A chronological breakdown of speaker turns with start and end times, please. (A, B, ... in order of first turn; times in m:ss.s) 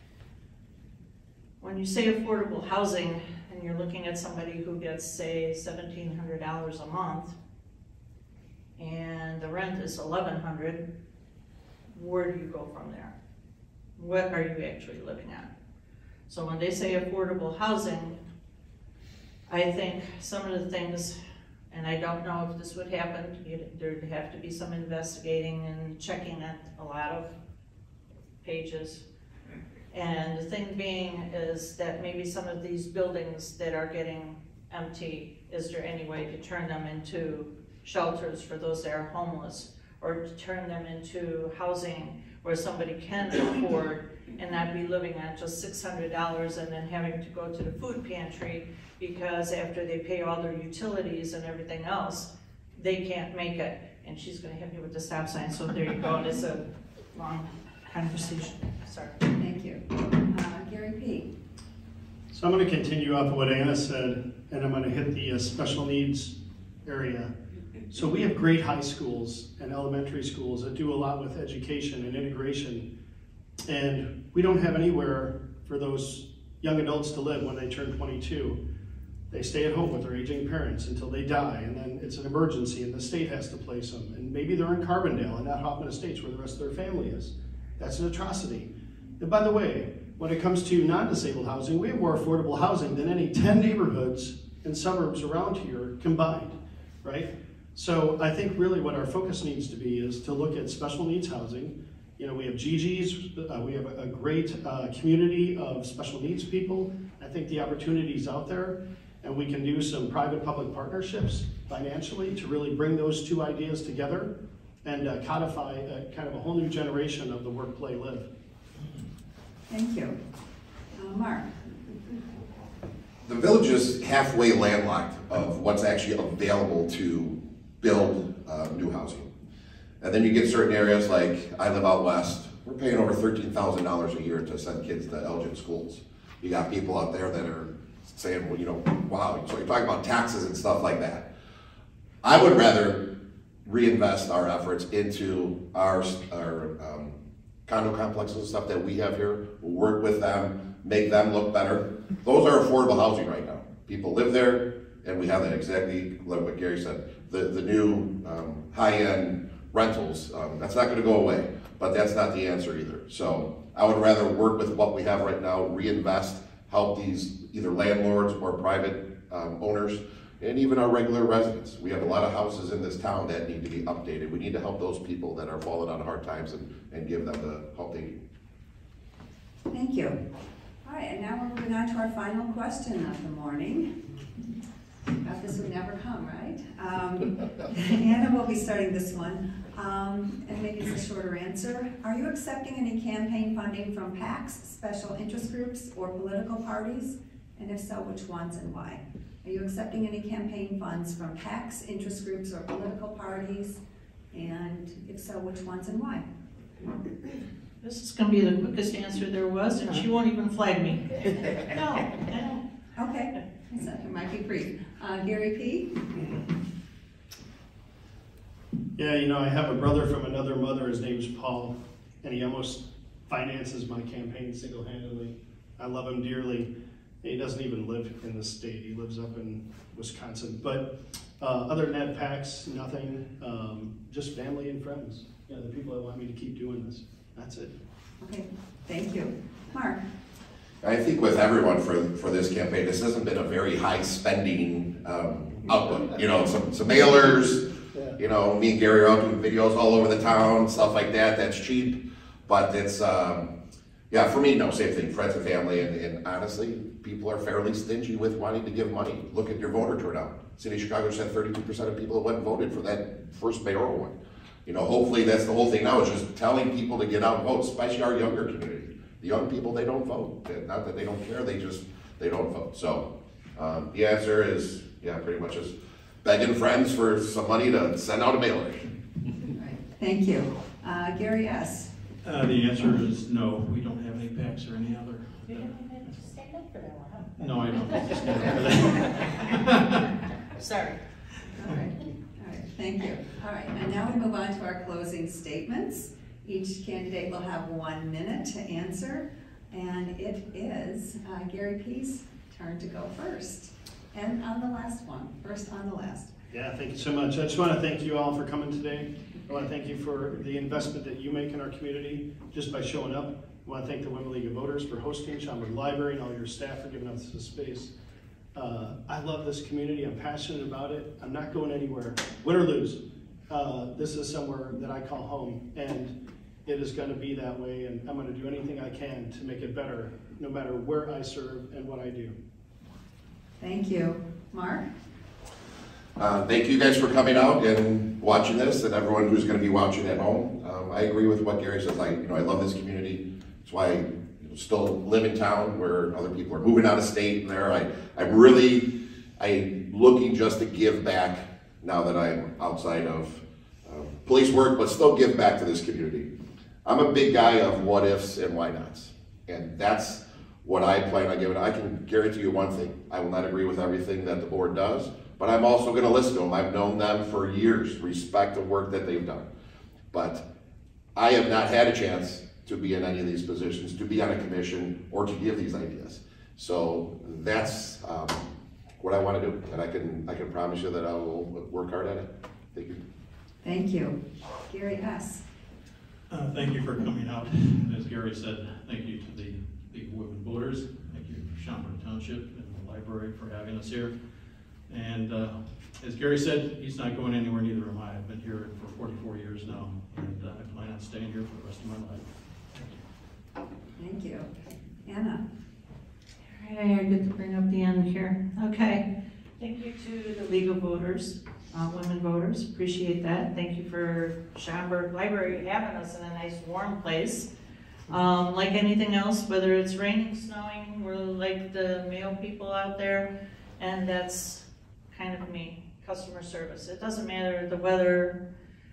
0:01.6-0:07.4 A
0:08.8-0:10.8 A
0:11.9-0:13.1 A
0:14.0-0:15.5 A
0:16.3-0:18.2 A
0:19.5-0:21.2 A
0:21.7-0:27.3 A
0:28.4-0:29.0 A
0:29.9-0:59.2 A
0:59.4-1:01.3 B
1:02.3-1:07.3 C
1:07.9-1:12.8 C
1:13.7-1:18.6 C
1:19.3-1:28.7 C
1:29.2-1:54.3 C
1:54.8-1:58.3 C
1:59.7-2:00.2 B
2:00.9-2:01.5 B
2:03.2-2:09.3 D
2:10.0-2:21.2 D
2:22.2-2:23.1 D
2:23.6-2:58.1 D
2:59.7-3:00.2 B
3:00.8-3:03.9 B
3:05.2-3:23.8 B
3:24.3-3:26.2 B
3:27.8-3:32.6 A
3:33.0-3:35.9 B
3:39.0-3:46.7 C
3:47.2-3:57.7 C
3:58.2-4:00.0 B
4:00.8-4:13.5 D
4:14.1-4:24.1 D
4:24.6-4:38.9 D
4:39.5-4:41.9 B
4:42.2-4:45.7 E
4:45.5-4:47.6 A
4:47.4-4:50.1 E
4:50.6-4:51.0 A
4:51.6-5:06.3 B
5:06.5-5:17.9 C
5:18.5-5:26.1 C
5:26.6-5:32.3 C
5:33.6-5:34.9 B
5:36.2-5:56.3 D
5:56.8-6:09.5 D
6:10.1-6:10.4 D
6:11.1-6:18.4 D
6:19.0-6:23.0 D
6:23.6-6:25.4 B
6:26.3-6:34.1 E
6:34.9-6:43.0 E
6:44.0-6:44.5 B
6:45.0-6:45.4 B
6:46.5-6:49.0 A
6:49.6-6:57.5 A
6:58.1-7:03.3 A
7:03.8-7:08.4 A